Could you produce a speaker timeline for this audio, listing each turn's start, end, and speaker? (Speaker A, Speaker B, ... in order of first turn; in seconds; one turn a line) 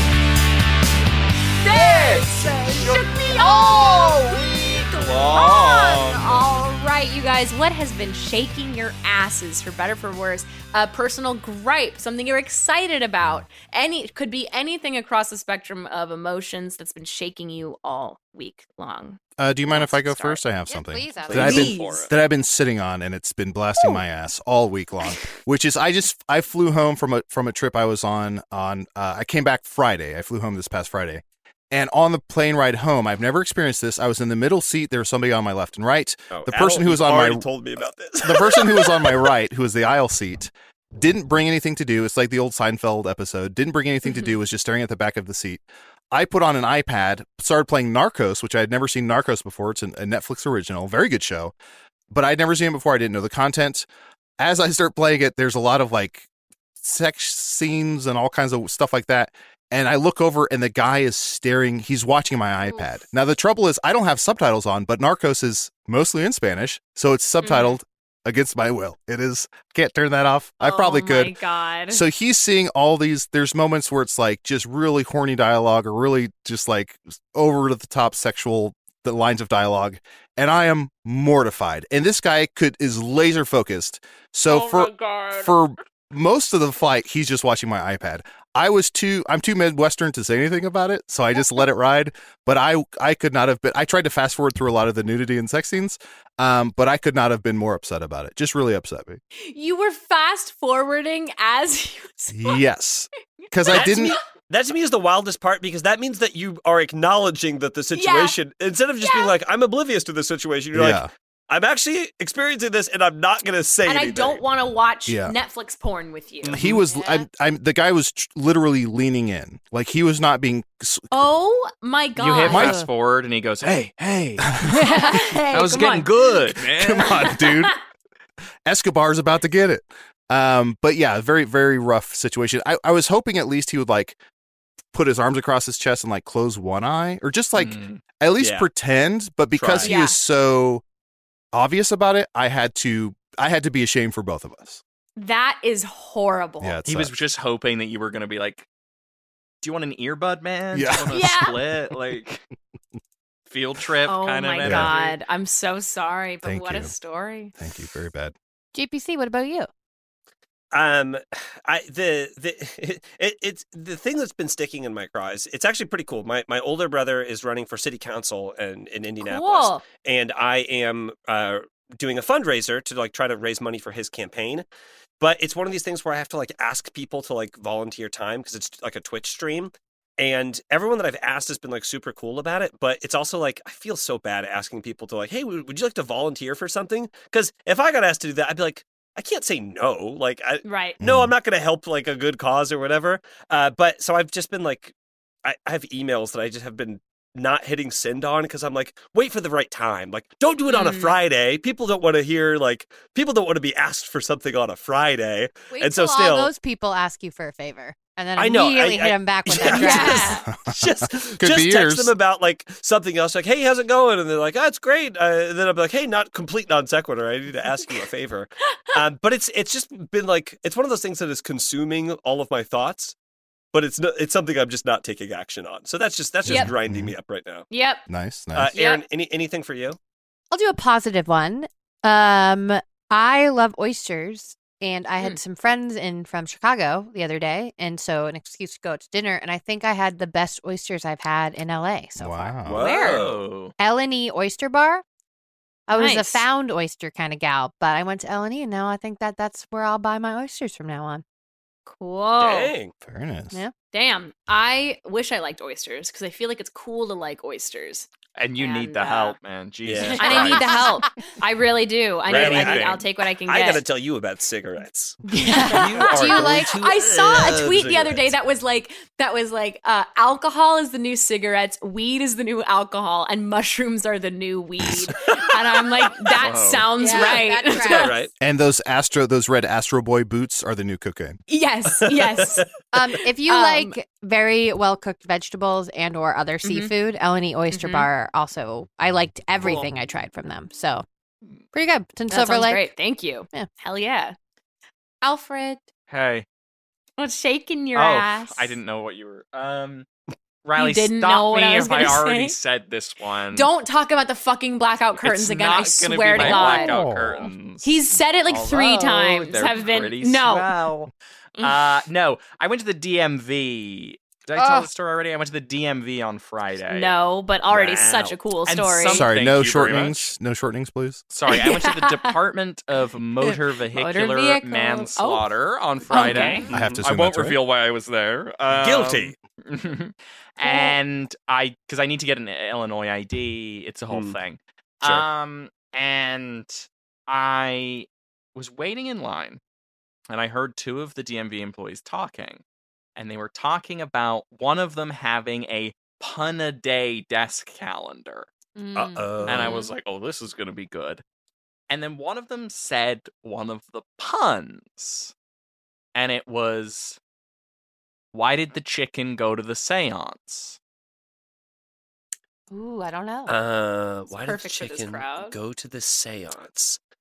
Speaker A: 1.6-19.2
Speaker B: 1.7-6.4
Speaker C: 3.4-3.9
Speaker D: 19.4-37.5
Speaker A: 19.8-20.3
Speaker C: 20.2-21.7
Speaker B: 21.3-22.1
Speaker A: 21.4-22.0
Speaker E: 36.3-38.9
Speaker D: 38.2-51.5
Speaker D: 52.1-53.9
Speaker D: 54.4-56.3
Speaker D: 56.8-71.4
Speaker A: 67.4-67.8
Speaker A: 70.6-72.0
Speaker D: 71.9-99.2
Speaker A: 84.7-85.4
Speaker A: 99.4-102.6
Speaker D: 102.3-104.2
Speaker A: 103.5-104.2
Speaker E: 103.7-114.4
Speaker A: 107.9-108.3
Speaker A: 109.0-109.3
Speaker D: 110.7-111.1
Speaker A: 113.8-117.0
Speaker D: 115.1-115.3
Speaker D: 116.5-121.1
Speaker C: 116.9-117.2
Speaker A: 121.1-122.8
Speaker B: 122.2-124.5
Speaker D: 122.5-122.8
Speaker A: 124.7-126.3
Speaker B: 125.5-127.1
Speaker D: 126.5-127.8
Speaker A: 127.2-127.8
Speaker D: 128.7-134.2
Speaker D: 134.9-140.8
Speaker B: 137.6-138.0
Speaker E: 138.4-138.7
Speaker E: 139.5-140.0
Speaker A: 139.8-140.2
Speaker D: 141.5-144.8
Speaker A: 145.2-146.8
Speaker D: 146.6-147.1
Speaker B: 146.9-148.7
Speaker B: 149.6-152.4
Speaker D: 150.7-151.3
Speaker A: 151.1-151.6
Speaker B: 153.5-155.2
Speaker A: 154.1-157.5
Speaker D: 154.6-154.9
Speaker D: 156.4-156.9
Speaker D: 157.6-158.3
Speaker C: 158.7-159.7
Speaker E: 160.7-174.7
Speaker A: 169.2-169.8
Speaker E: 175.2-194.9
Speaker A: 190.6-191.0
Speaker D: 191.0-191.3
Speaker E: 195.4-206.5
Speaker A: 200.7-201.2
Speaker C: 205.7-210.4
Speaker E: 208.4-223.2
Speaker A: 209.7-210.4
Speaker D: 210.5-212.1
Speaker E: 223.7-227.7
Speaker D: 226.4-227.2
Speaker A: 227.7-228.0
Speaker D: 228.1-228.7
Speaker E: 228.6-230.0
Speaker A: 228.7-229.0
Speaker C: 230.5-243.3
Speaker D: 242.2-242.8
Speaker E: 242.7-243.4
Speaker B: 242.8-243.7
Speaker C: 243.8-245.0
Speaker C: 245.9-251.2
Speaker A: 245.9-246.4
Speaker A: 251.9-252.7
Speaker E: 252.4-252.9
Speaker D: 253.0-253.6
Speaker A: 253.9-258.1
Speaker B: 258.4-260.8
Speaker A: 258.6-259.4
Speaker E: 259.9-260.6
Speaker A: 260.2-263.8
Speaker C: 260.6-261.1
Speaker E: 262.3-268.3
Speaker B: 262.3-263.0
Speaker C: 265.3-266.7
Speaker A: 265.5-278.1
Speaker B: 276.4-277.3
Speaker C: 277.0-278.2
Speaker E: 277.7-278.3
Speaker D: 278.4-281.4
Speaker A: 281.5-282.6
Speaker E: 282.0-282.6
Speaker C: 282.9-291.1
Speaker A: 283.5-283.9
Speaker A: 286.6-286.9
Speaker A: 287.7-288.1
Speaker C: 291.7-292.9
Speaker A: 292.3-294.4
Speaker A: 295.2-295.8
Speaker B: 296.1-296.5
Speaker A: 297.2-298.8
Speaker B: 297.9-300.1
Speaker B: 300.6-303.7
Speaker A: 300.8-302.6
Speaker A: 303.5-306.9
Speaker B: 305.2-317.1
Speaker D: 306.4-307.5
Speaker A: 307.8-310.7
Speaker C: 314.6-314.9
Speaker A: 316.9-319.2
Speaker E: 317.7-318.4
Speaker B: 318.7-320.3
Speaker D: 319.1-321.2
Speaker B: 321.3-339.6
Speaker A: 321.5-322.3
Speaker A: 323.5-325.5
Speaker A: 326.1-326.7
Speaker E: 326.7-327.0
Speaker D: 326.7-327.6
Speaker E: 328.7-329.3
Speaker A: 330.6-330.9
Speaker E: 334.1-334.4
Speaker B: 340.3-342.6
Speaker B: 343.2-348.5
Speaker C: 348.8-349.5
Speaker E: 348.9-349.8
Speaker B: 349.4-351.2
Speaker A: 349.5-349.9
Speaker B: 351.9-355.3
Speaker B: 356.1-357.2
Speaker B: 358.3-360.8
Speaker C: 362.7-363.5
Speaker E: 363.5-367.0
Speaker A: 364.3-365.6